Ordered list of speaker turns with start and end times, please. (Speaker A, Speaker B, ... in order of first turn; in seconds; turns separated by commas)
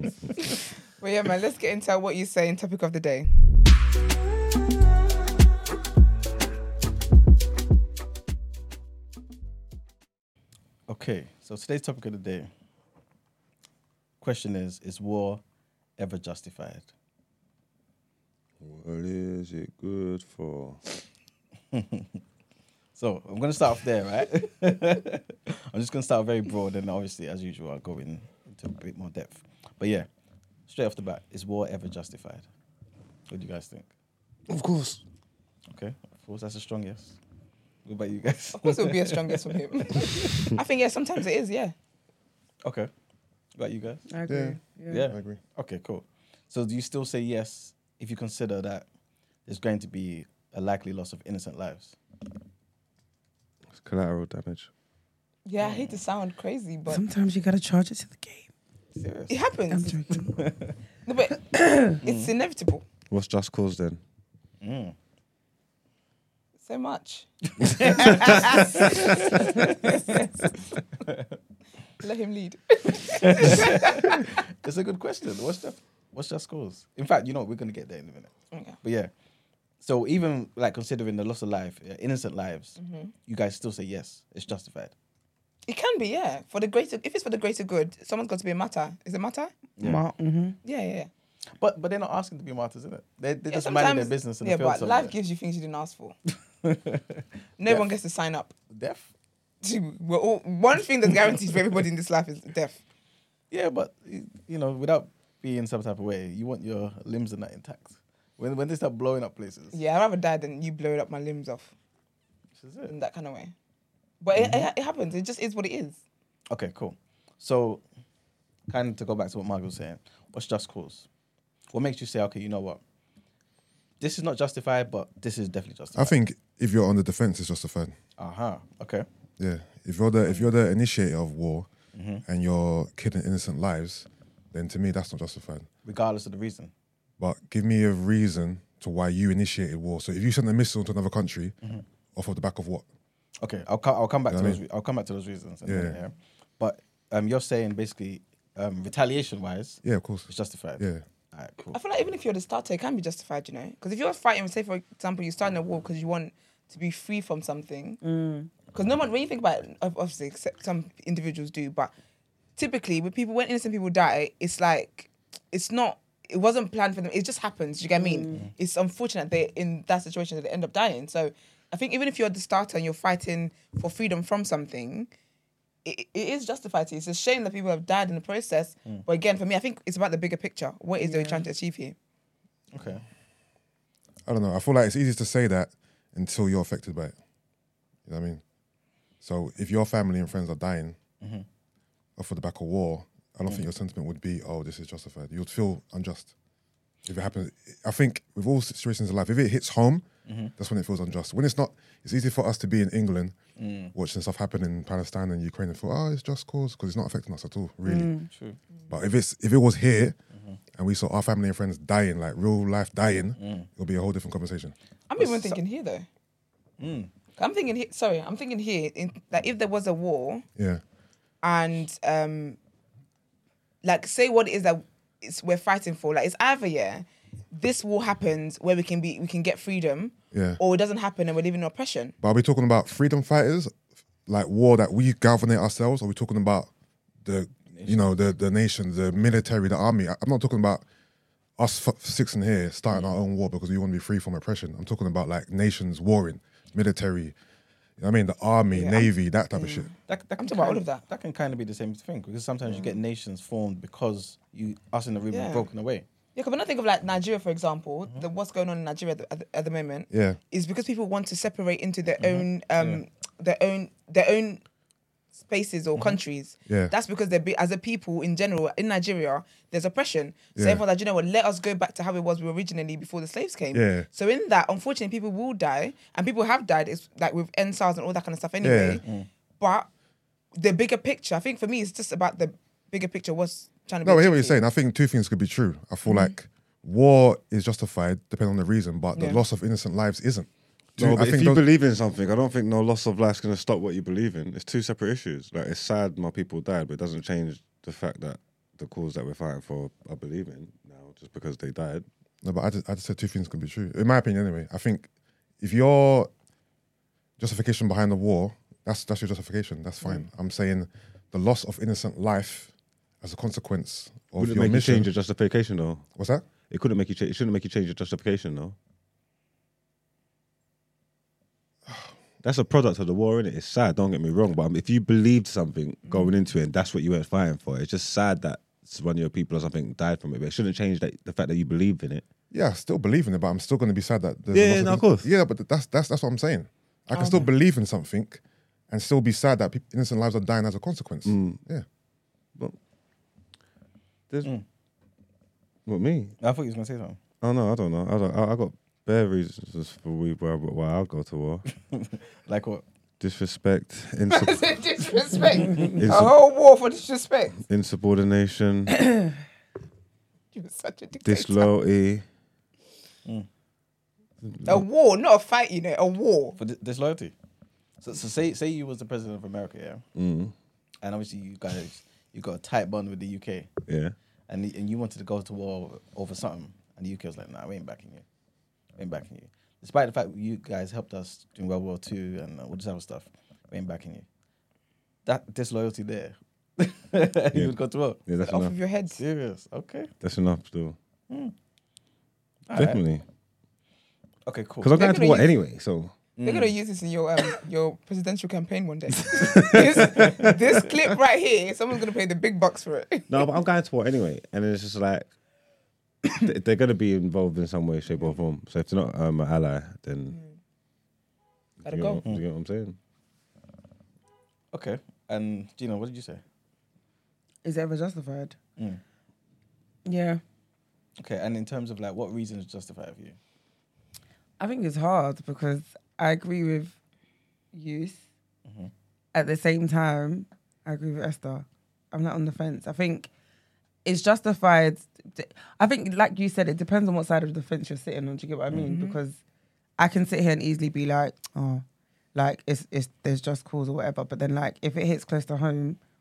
Speaker A: 0.4-3.3, Speaker B: 10.9-12.5, Speaker B: 14.2-15.4, Speaker B: 16.0-16.9, Speaker C: 18.6-20.8, Speaker B: 21.7-22.2, Speaker B: 23.0-30.1, Speaker B: 30.7-32.5, Speaker B: 33.3-33.9, Speaker C: 34.5-35.0, Speaker B: 35.7-37.2, Speaker B: 37.9-40.5, Speaker A: 38.5-41.7, Speaker B: 42.6-42.9, Speaker B: 43.5-44.1, Speaker D: 44.1-45.1, Speaker E: 44.3-45.4, Speaker B: 44.9-48.9, Speaker B: 49.5-52.0, Speaker C: 53.7-54.7, Speaker A: 55.5-57.0, Speaker B: 55.6-56.0, Speaker D: 56.9-58.5, Speaker B: 58.9-59.4, Speaker A: 59.3-60.0, Speaker D: 59.7-60.4, Speaker B: 60.2-60.8, Speaker A: 61.1-61.4, Speaker D: 61.5-62.0, Speaker A: 62.0-62.9, Speaker B: 62.0-62.3, Speaker C: 63.1-64.0, Speaker B: 64.6-65.0, Speaker A: 66.7-67.3, Speaker B: 67.6-70.3, Speaker A: 68.0-68.7, Speaker C: 68.0-68.8, Speaker B: 71.0-71.3, Speaker A: 72.0-74.2, Speaker B: 73.1-79.1, Speaker B: 79.8-84.9, Speaker A: 82.8-83.1, Speaker A: 85.7-89.5, Speaker B: 89.8-90.0, Speaker D: 89.8-90.6, Speaker A: 90.6-91.1, Speaker B: 91.5-95.1, Speaker A: 93.5-96.2, Speaker B: 96.6-97.9, Speaker A: 97.6-98.5, Speaker B: 98.7-99.1, Speaker A: 99.6-102.8, Speaker B: 103.5-109.8, Speaker A: 109.7-111.7, Speaker B: 112.6-112.9, Speaker A: 112.9-113.5, Speaker A: 114.2-116.0, Speaker B: 114.3-114.7, Speaker B: 116.5-117.8, Speaker B: 118.7-121.1, Speaker B: 121.7-122.8, Speaker B: 124.0-126.2, Speaker E: 126.0-127.9, Speaker B: 128.2-129.1, Speaker E: 129.4-131.7, Speaker B: 131.9-132.2, Speaker E: 132.3-135.7, Speaker B: 135.8-136.7, Speaker E: 137.2-141.6, Speaker E: 142.2-142.8, Speaker B: 143.4-151.8, Speaker E: 144.3-144.6, Speaker E: 145.7-146.0, Speaker E: 149.8-151.0, Speaker A: 151.7-158.0, Speaker D: 158.0-158.5, Speaker A: 158.7-161.9, Speaker A: 162.6-175.1, Speaker D: 168.0-168.5, Speaker A: 175.8-181.9, Speaker D: 181.0-181.5, Speaker B: 182.7-183.0, Speaker E: 184.3-187.2, Speaker E: 188.1-188.4, Speaker E: 189.2-191.0, Speaker B: 191.2-191.4, Speaker E: 192.2-196.3, Speaker E: 197.1-203.4, Speaker B: 200.3-200.5, Speaker B: 203.6-203.9, Speaker E: 203.9-208.2, Speaker D: 207.9-208.3, Speaker B: 208.3-208.6, Speaker E: 208.9-210.2, Speaker B: 210.3-210.6, Speaker E: 210.8-214.8, Speaker B: 213.4-213.7, Speaker A: 215.1-216.1, Speaker B: 215.2-215.6, Speaker B: 216.8-217.1, Speaker A: 217.4-220.5, Speaker E: 220.6-220.8, Speaker A: 221.4-222.6, Speaker A: 223.8-232.2, Speaker E: 230.3-230.6, Speaker E: 232.2-233.7, Speaker E: 234.3-236.7, Speaker E: 237.2-240.8, Speaker B: 237.7-238.1, Speaker E: 241.6-247.3, Speaker E: 248.0-249.9, Speaker A: 248.7-251.0, Speaker B: 250.1-256.1, Speaker A: 255.3-255.7, Speaker A: 256.4-264.6, Speaker E: 260.1-260.4, Speaker B: 262.2-263.0, Speaker A: 265.4-279.0, Speaker B: 265.9-266.2, Speaker E: 266.7-266.9, Speaker E: 270.6-270.8, Speaker E: 273.7-274.1, Speaker E: 278.6-279.0, Speaker B: 279.0-279.3, Speaker A: 279.6-279.9, Speaker A: 280.6-284.6, Speaker E: 284.0-291.6, Speaker A: 286.1-286.3, Speaker A: 289.1-289.4, Speaker C: 291.0-302.1, Speaker E: 302.4-305.1, Speaker E: 305.6-306.3, Speaker E: 307.4-315.1, Speaker C: 314.4-316.1, Speaker E: 316.2-316.5, Speaker C: 316.6-318.8, Speaker C: 322.4-332.2, Speaker A: 326.1-326.3, Speaker E: 332.5-341.8, Speaker C: 334.5-335.3, Speaker A: 337.1-337.5, Speaker C: 341.2-341.6, Speaker C: 345.9-346.4, Speaker B: 346.4-347.2, Speaker C: 347.4-351.7, Speaker B: 351.9-352.8, Speaker C: 353.2-354.7, Speaker A: 354.3-357.6, Speaker C: 355.8-356.4, Speaker C: 357.6-359.1, Speaker A: 360.5-361.7, Speaker C: 361.2-362.2, Speaker C: 364.4-364.9, Speaker A: 364.6-366.6, Speaker B: 366.6-367.3, Speaker B: 368.0-370.1, Speaker C: 370.2-370.5, Speaker B: 371.0-373.8, Speaker C: 373.9-374.1, Speaker B: 374.5-378.2, Speaker B: 379.0-384.3, Speaker B: 385.2-388.2, Speaker C: 388.3-388.8, Speaker A: 388.4-389.2, Speaker B: 389.2-390.1, Speaker C: 390.2-391.0, Speaker B: 391.3-391.5, Speaker B: 392.7-393.0, Speaker C: 392.7-393.2, Speaker B: 394.5-395.0, Speaker C: 394.8-396.2, Speaker A: 394.9-395.5, Speaker B: 396.4-396.7, Speaker A: 396.4-403.6, Speaker C: 399.2-400.9, Speaker C: 403.3-405.3, Speaker C: 406.3-410.4, Speaker C: 411.8-413.0, Speaker A: 411.9-412.2, Speaker B: 414.7-416.4, Speaker D: 417.6-418.6, Speaker D: 420.1-420.4, Speaker B: 421.2-423.4, Speaker D: 424.6-427.0, Speaker D: 427.7-428.2, Speaker B: 428.6-428.9, Speaker D: 429.3-433.3, Speaker D: 434.1-439.4, Speaker A: 438.9-439.2, Speaker D: 440.0-446.0